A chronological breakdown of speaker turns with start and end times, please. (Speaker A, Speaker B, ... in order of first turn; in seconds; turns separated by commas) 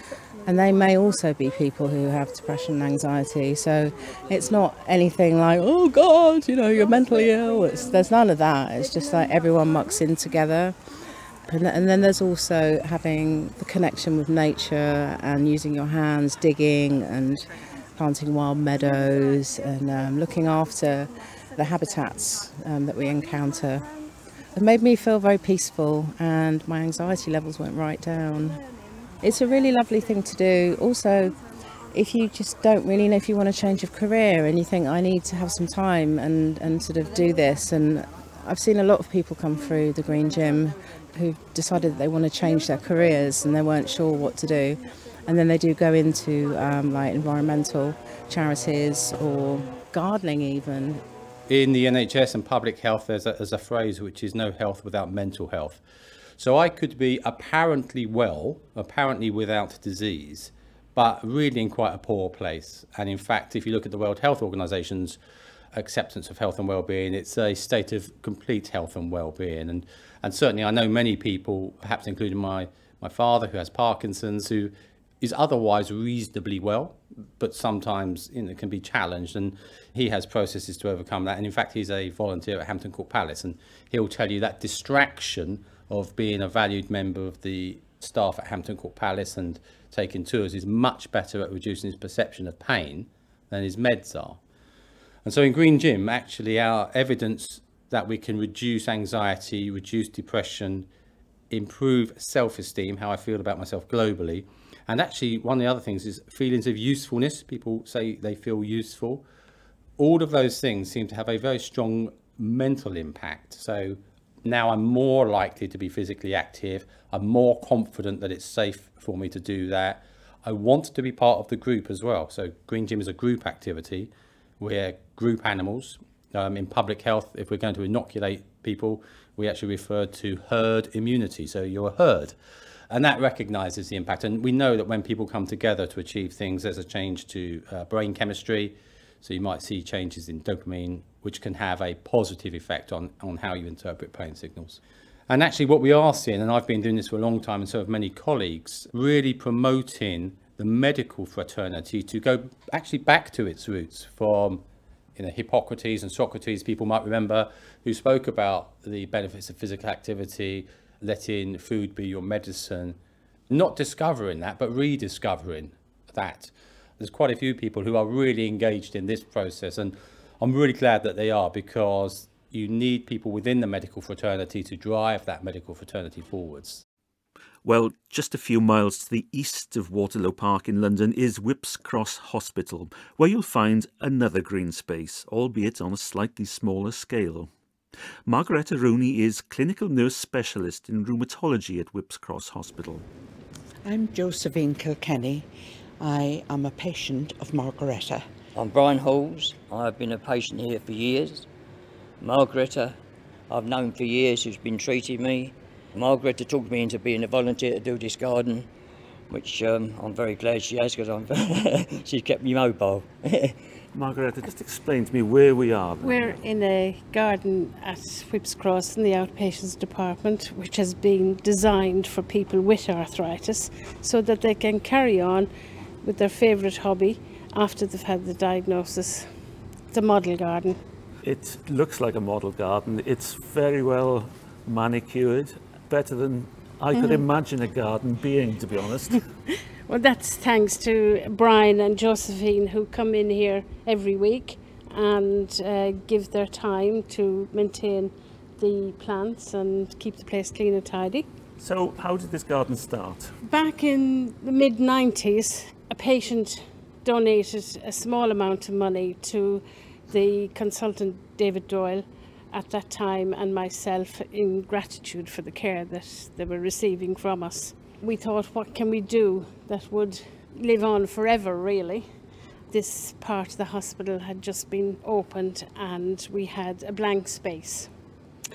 Speaker A: 0.5-10.8, Speaker A: 11.5-23.9, Speaker A: 24.5-28.6, Speaker A: 29.2-31.4, Speaker A: 31.9-51.0, Speaker B: 51.5-55.8, Speaker B: 56.4-65.2, Speaker B: 65.7-94.4, Speaker B: 95.2-100.9, Speaker B: 101.5-109.2, Speaker B: 110.0-132.3, Speaker B: 132.9-154.6, Speaker B: 155.2-163.0, Speaker B: 163.5-176.8, Speaker C: 177.6-187.5, Speaker C: 188.3-193.1, Speaker D: 193.8-195.5, Speaker D: 196.0-198.3, Speaker E: 198.6-201.5, Speaker E: 202.2-203.0, Speaker E: 203.5-208.7, Speaker E: 209.3-213.6, Speaker C: 213.9-216.2, Speaker F: 216.0-225.5, Speaker F: 226.0-229.3, Speaker F: 229.9-230.8, Speaker C: 231.2-239.2, Speaker F: 236.9-237.2, Speaker F: 239.9-251.3, Speaker C: 251.6-253.3, Speaker F: 253.4-272.1, Speaker F: 272.7-277.9